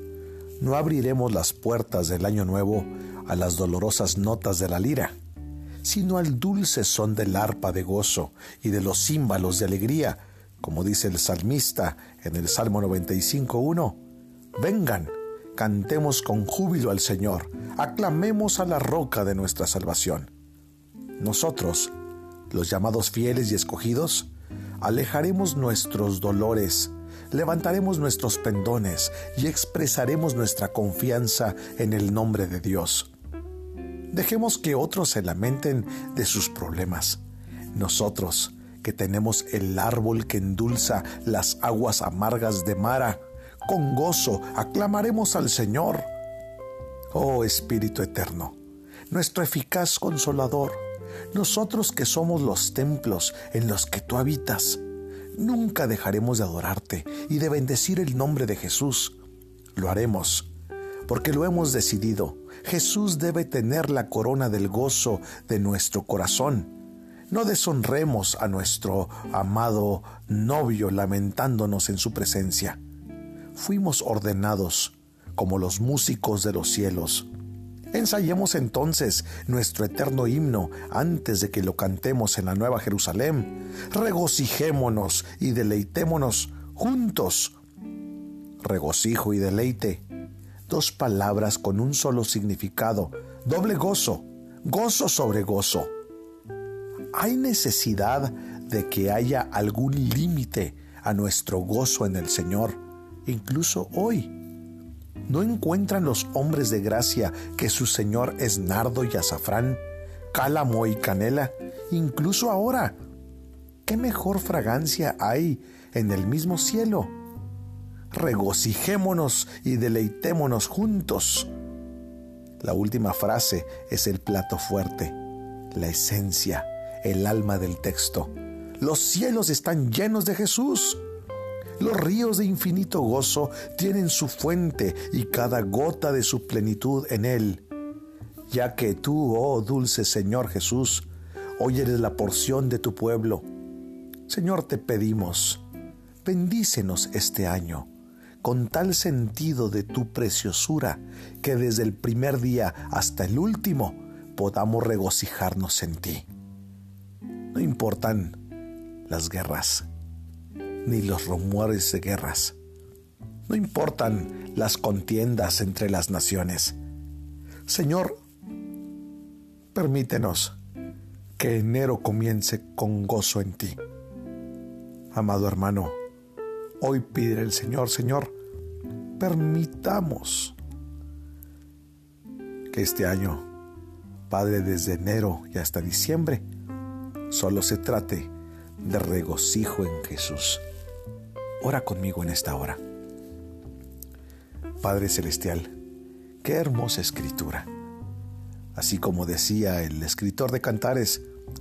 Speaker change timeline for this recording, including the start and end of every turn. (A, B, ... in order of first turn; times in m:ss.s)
0:00.6-0:05.1 A
0:05.8-0:14.0 A
0:14.6-0:20.3 A
0:21.2-0:21.9 A
0:22.5-0:24.3 A
0:24.8-0:33.1 A
0:34.1-0:37.2 A
0:37.7-0:46.1 A
0:47.1-0:48.6 A
0:49.1-0:54.8 A
0:55.3-0:59.2 A
0:59.8-1:00.5 A
1:01.0-1:06.7 A
1:07.3-1:12.8 A
1:13.5-1:17.3 A
1:17.9-1:27.6 A
1:28.6-1:30.0 A
1:30.7-1:35.9 A
1:37.1-1:44.3 A
1:45.3-1:49.8 A
1:50.3-1:53.0 A
1:53.8-1:57.1 A
1:58.1-2:01.5 A
2:02.6-2:05.2 A
2:05.7-2:11.0 A
2:11.8-2:17.6 A
2:18.5-2:23.4 A
2:24.3-2:25.6 A
2:26.2-2:27.9 A
2:28.4-2:36.2 A
2:37.5-2:38.4 A
2:39.0-2:39.8 A
2:40.8-2:42.6 A
2:43.5-2:46.8 A
2:47.6-2:48.2 A
2:49.7-2:50.5 A
2:51.4-2:53.8 A
2:55.1-2:55.9 A
2:56.8-2:58.3 A
2:59.2-3:00.6 A
3:02.7-3:03.4 A
3:04.3-3:06.4 A
3:07.3-3:10.6 A
3:11.6-3:12.8 A
3:14.8-3:15.7 A
3:16.4-3:17.7 A
3:18.7-3:21.2 A